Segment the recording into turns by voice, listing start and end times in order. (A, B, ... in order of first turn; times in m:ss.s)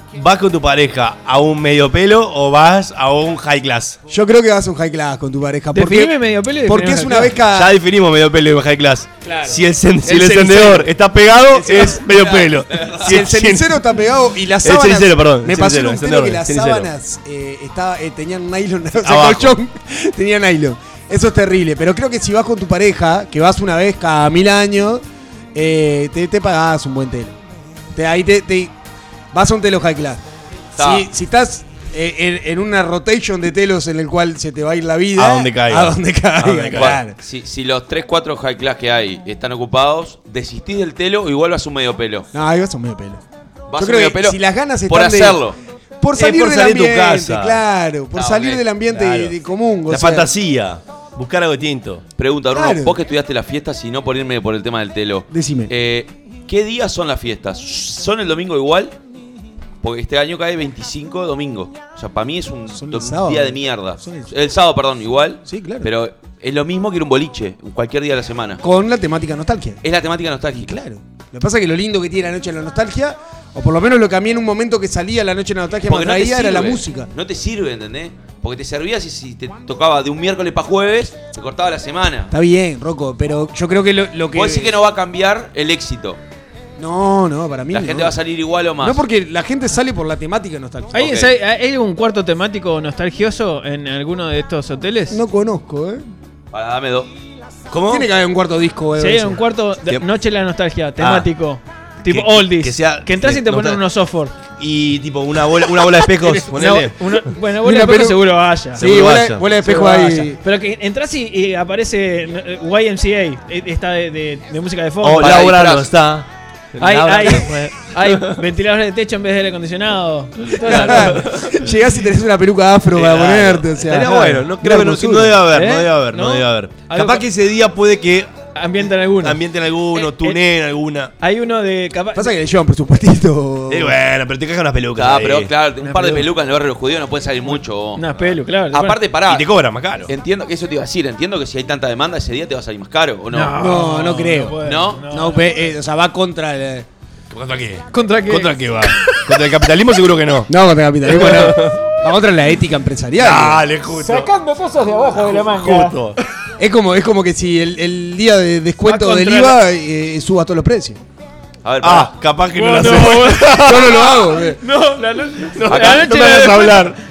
0:00.1-0:04.0 A
0:04.1-0:07.8 B
0:05.7-0:07.3 C
0:07.5-0:13.8 A
0:09.2-0:09.6 C
0:10.0-0:12.1 B
0:12.0-0:13.2 D
0:13.0-0:25.0 B
0:14.6-0:16.9 A
0:19.0-0:19.5 A
0:25.5-0:27.3 B
0:28.0-0:28.7 B
0:29.3-0:30.2 B
0:30.8-0:31.1 D
0:30.8-0:37.2 B
0:35.2-0:37.0 A
0:36.8-0:42.3 D
0:42.3-0:43.2 B
0:43.7-0:45.6 D
0:43.8-0:45.4 B
0:46.0-0:50.3 B
0:46.2-0:47.6 A
0:48.1-0:48.6 D
0:48.9-0:49.3 A
0:49.9-0:52.0 A
0:52.2-0:59.0 D
0:52.5-0:53.0 B
0:55.3-0:55.7 B
0:59.8-1:08.6 D
1:02.7-1:04.3 B
1:05.5-1:05.9 B
1:08.6-1:09.8 B
1:09.8-1:10.8 D
1:10.5-1:17.1 B
1:15.9-1:22.3 D
1:22.3-1:24.8 B
1:24.3-1:26.2 D
1:26.8-1:28.2 B
1:27.7-1:29.0 D
1:28.8-1:31.1 B
1:30.9-1:31.3 D
1:30.9-1:35.2 C
1:35.1-1:36.0 B
1:36.5-1:37.1 D
1:37.7-1:38.1 A
1:37.9-1:39.4 B
1:39.0-1:44.3 C
1:41.0-1:41.3 A
1:42.1-1:43.8 A
1:44.6-1:47.0 A
1:45.9-1:48.9 C
1:47.6-1:48.2 B
1:48.8-1:50.4 B
1:48.8-1:49.4 A
1:49.6-1:55.5 C
1:55.0-1:57.5 A
1:55.2-1:55.9 D
1:56.8-2:01.3 C
1:58.0-1:58.4 A
2:00.6-2:05.4 B
2:00.7-2:01.4 A
2:02.9-2:08.3 A
2:05.5-2:07.3 C
2:08.6-2:09.4 C
2:09.2-2:11.1 A
2:09.9-2:10.4 C
2:11.2-2:12.4 C
2:12.2-2:14.0 B
2:13.7-2:15.5 A
2:15.0-2:18.0 D
2:15.8-2:16.3 C
2:18.0-2:19.0 C
2:18.7-2:19.5 D
2:19.3-2:20.1 A
2:20.1-2:23.6 D
2:23.3-2:25.5 C
2:23.6-2:26.9 B
2:24.6-2:25.0 D
2:27.3-2:30.5 A
2:27.9-2:29.2 C
2:30.5-2:33.6 B
2:31.1-2:31.8 A
2:33.2-2:34.3 A
2:34.0-2:36.0 C
2:35.1-2:36.2 A
2:36.6-2:41.0 B
2:38.8-2:39.6 C
2:41.6-2:42.1 D
2:41.8-2:44.1 A
2:42.6-2:46.9 C
2:43.3-2:44.6 B
2:45.6-2:47.0 A
2:45.7-2:46.2 D